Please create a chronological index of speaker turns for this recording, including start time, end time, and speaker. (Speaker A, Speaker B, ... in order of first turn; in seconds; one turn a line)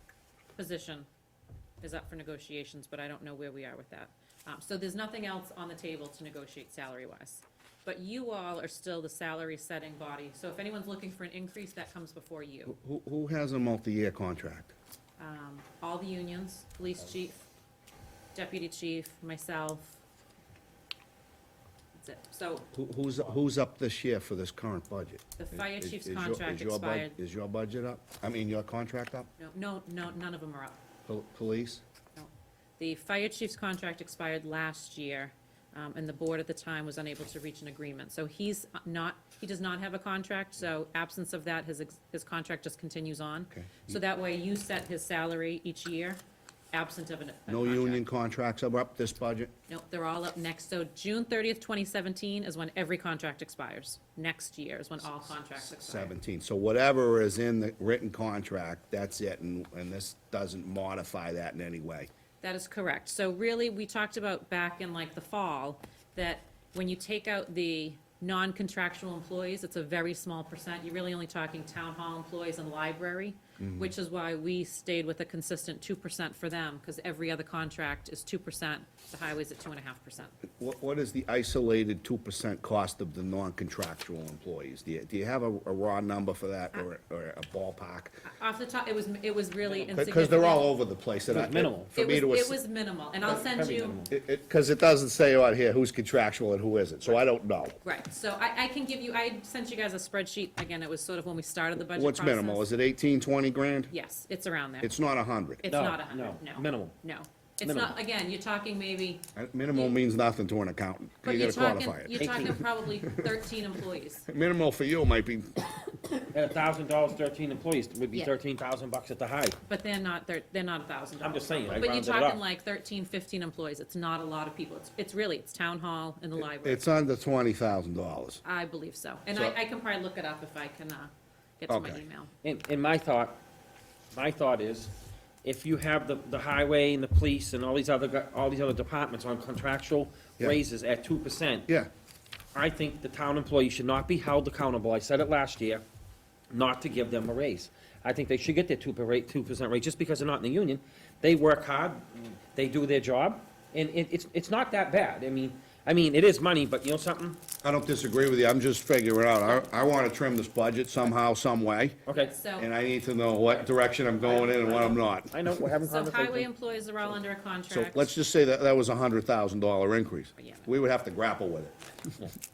Speaker A: 0.6-1.1
Speaker A: 1.8-12.8
Speaker B: 12.7-14.7
Speaker A: 15.2-17.5
Speaker A: 18.3-20.0
Speaker A: 21.9-22.7
Speaker B: 22.7-29.3
Speaker A: 25.4-27.2
Speaker A: 29.4-30.8
Speaker B: 31.1-31.8
Speaker A: 32.2-46.2
Speaker B: 43.5-44.0
Speaker A: 46.7-48.0
Speaker B: 47.5-49.5
Speaker A: 49.7-56.1
Speaker B: 55.2-62.1
Speaker A: 62.4-80.4
Speaker B: 73.6-73.9
Speaker B: 80.6-88.2
Speaker A: 88.3-90.7
Speaker C: 89.7-89.9
Speaker B: 89.9-92.6
Speaker C: 91.3-91.9
Speaker A: 92.0-94.1
Speaker C: 93.2-94.1
Speaker B: 94.1-97.8
Speaker A: 97.8-102.7
Speaker B: 101.9-103.9
Speaker A: 103.9-105.0
Speaker B: 104.8-105.7
Speaker A: 105.6-110.0
Speaker C: 105.7-107.0
Speaker C: 107.6-108.0
Speaker B: 109.3-112.2
Speaker A: 111.2-114.3
Speaker C: 112.2-112.6
Speaker B: 114.3-115.9
Speaker C: 116.3-119.6
Speaker A: 119.7-126.8
Speaker C: 121.2-122.4
Speaker B: 126.4-128.4
Speaker A: 128.4-132.3
Speaker B: 131.7-132.0
Speaker C: 132.4-133.4
Speaker C: 134.1-134.9
Speaker C: 135.4-141.7
Speaker C: 142.6-145.8
Speaker C: 146.5-157.4
Speaker B: 157.6-162.0
Speaker C: 162.1-162.4
Speaker A: 162.1-162.7
Speaker B: 162.6-165.3
Speaker A: 164.2-165.0
Speaker C: 165.3-166.5
Speaker A: 165.9-168.1
Speaker B: 167.7-171.8
Speaker A: 170.4-170.7